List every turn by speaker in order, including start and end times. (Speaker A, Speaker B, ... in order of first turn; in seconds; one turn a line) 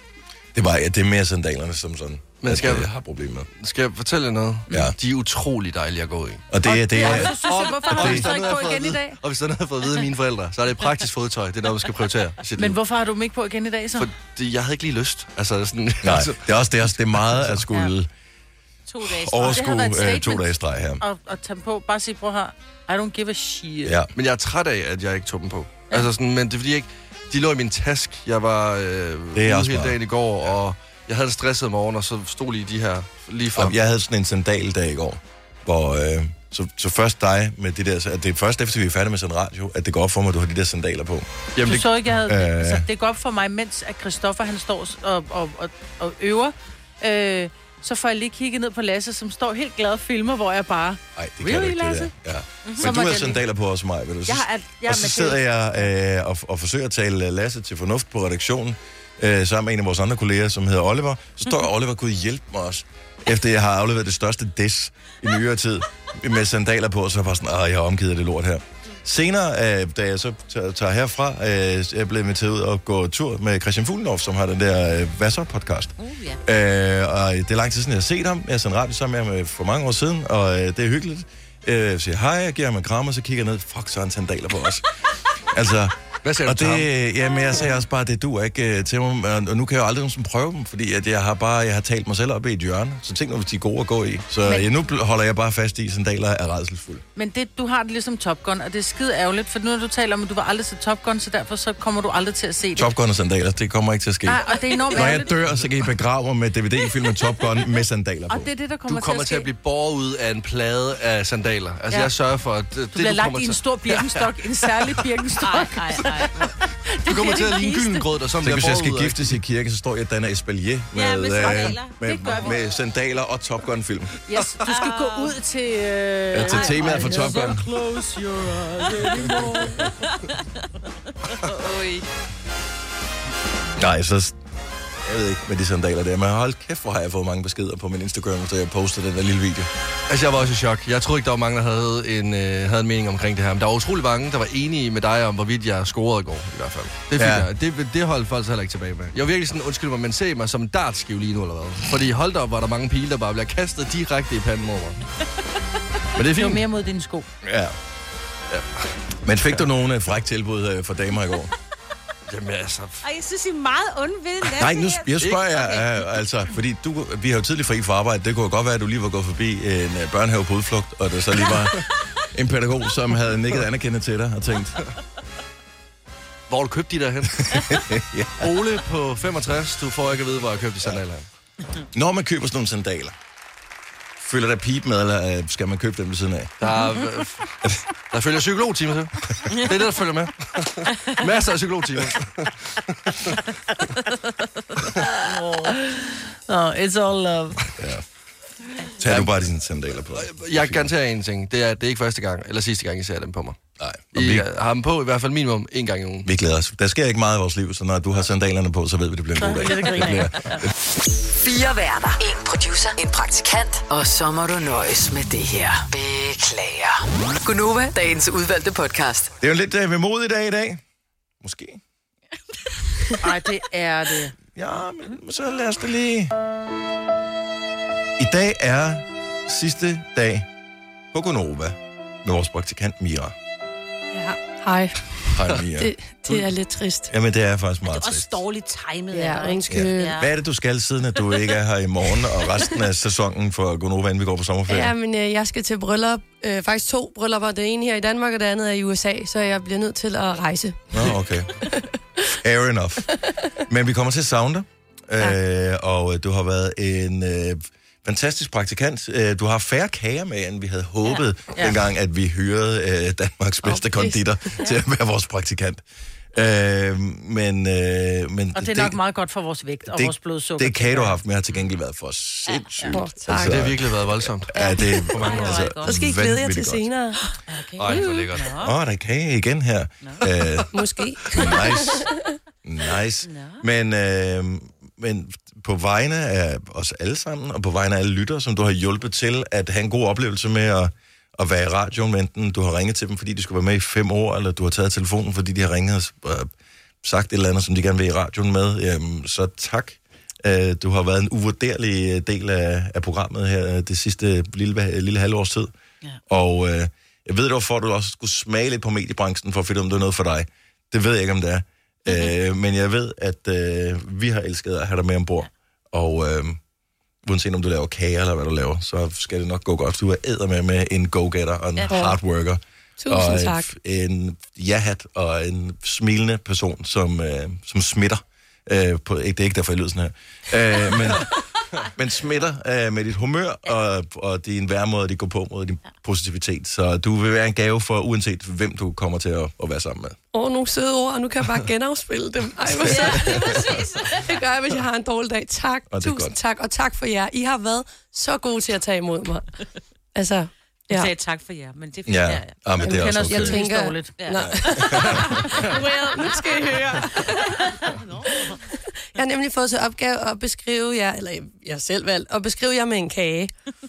Speaker A: 0.5-3.5
Speaker B: 2.4-2.9
Speaker B: 3.6-12.8
Speaker A: 4.7-5.0
Speaker A: 6.5-8.5
Speaker C: 6.7-9.2
Speaker C: 12.6-14.1
Speaker B: 14.0-17.6
Speaker A: 16.0-18.1
Speaker D: 18.9-19.9
Speaker A: 19.0-21.0
Speaker C: 19.4-20.5
Speaker C: 21.0-24.0
Speaker A: 23.9-24.1
Speaker B: 24.1-33.7
Speaker A: 29.4-30.0
Speaker A: 33.6-41.3
Speaker B: 41.6-41.9
Speaker C: 41.7-52.1
Speaker A: 42.2-42.9
Speaker A: 51.2-84.9
Speaker D: 52.6-53.2
Speaker C: 52.7-53.4
Speaker C: 54.3-55.4
Speaker D: 76.0-76.4
Speaker A: 85.5-97.0
Speaker B: 86.2-86.9
Speaker C: 97.2-102.9
Speaker A: 102.8-108.5
Speaker C: 104.3-105.3
Speaker C: 108.3-109.5
Speaker B: 108.9-114.3
Speaker C: 112.9-116.2
Speaker D: 115.4-116.5
Speaker B: 116.2-119.4
Speaker C: 117.0-118.0
Speaker A: 118.4-124.2
Speaker D: 120.9-122.6
Speaker C: 121.5-122.6
Speaker C: 124.3-129.9
Speaker D: 124.7-125.4
Speaker A: 126.3-127.7
Speaker D: 126.4-127.6
Speaker D: 129.5-130.4
Speaker D: 131.3-132.1
Speaker A: 133.8-134.4
Speaker A: 135.0-139.7
Speaker B: 140.1-155.1
Speaker A: 147.2-147.5
Speaker B: 156.2-156.6
Speaker C: 156.3-157.3
Speaker A: 157.4-157.8
Speaker B: 158.5-158.8
Speaker A: 159.2-161.5
Speaker B: 162.3-163.0
Speaker D: 163.0-165.9
Speaker A: 164.4-174.8
Speaker B: 176.5-177.8
Speaker A: 177.4-178.5
Speaker B: 178.4-181.3
Speaker A: 181.9-183.2
Speaker A: 184.2-186.6
Speaker B: 186.6-187.5
Speaker B: 188.1-193.4
Speaker C: 195.3-197.6
Speaker D: 195.4-195.7
Speaker A: 197.8-198.0
Speaker A: 199.0-200.9
Speaker B: 199.1-199.4
Speaker B: 200.2-203.6
Speaker A: 203.8-204.5
Speaker B: 204.1-206.3
Speaker A: 206.2-210.7
Speaker C: 209.4-210.6
Speaker E: 211.3-219.3
Speaker A: 219.4-220.8
Speaker A: 221.4-221.8
Speaker C: 223.2-224.3
Speaker A: 224.5-226.3
Speaker A: 228.2-230.5
Speaker A: 231.1-233.3
Speaker F: 234.1-237.1
Speaker A: 235.3-235.9
Speaker A: 237.1-238.4
Speaker D: 237.8-240.3
Speaker F: 239.1-240.2
Speaker A: 239.7-244.9
Speaker F: 244.7-251.9
Speaker A: 250.9-251.7
Speaker A: 252.4-253.1
Speaker A: 253.7-265.8
Speaker F: 263.7-264.2
Speaker A: 266.3-269.0
Speaker C: 268.6-271.2
Speaker A: 269.9-276.9
Speaker F: 272.9-273.7
Speaker B: 273.4-274.5
Speaker D: 274.5-276.0
Speaker B: 275.1-275.7
Speaker F: 275.8-277.2
Speaker D: 277.3-278.8
Speaker B: 277.8-278.6
Speaker A: 278.6-280.7
Speaker F: 280.7-282.2
Speaker A: 281.3-282.1
Speaker A: 282.6-296.5
Speaker D: 283.2-283.6
Speaker A: 297.0-305.7
Speaker A: 306.3-316.6
Speaker D: 312.1-312.3
Speaker A: 317.2-331.3
Speaker D: 321.8-322.1
Speaker F: 321.9-322.2
Speaker F: 323.0-323.7
Speaker A: 331.9-340.2
Speaker F: 340.3-349.4
Speaker D: 342.8-344.4
Speaker A: 343.0-343.6
Speaker A: 345.9-346.4
Speaker F: 350.1-351.1
Speaker D: 350.9-352.7
Speaker A: 352.1-353.6
Speaker C: 352.8-354.1
Speaker F: 353.0-358.6
Speaker D: 354.2-358.5
Speaker A: 354.3-355.6
Speaker F: 359.2-363.5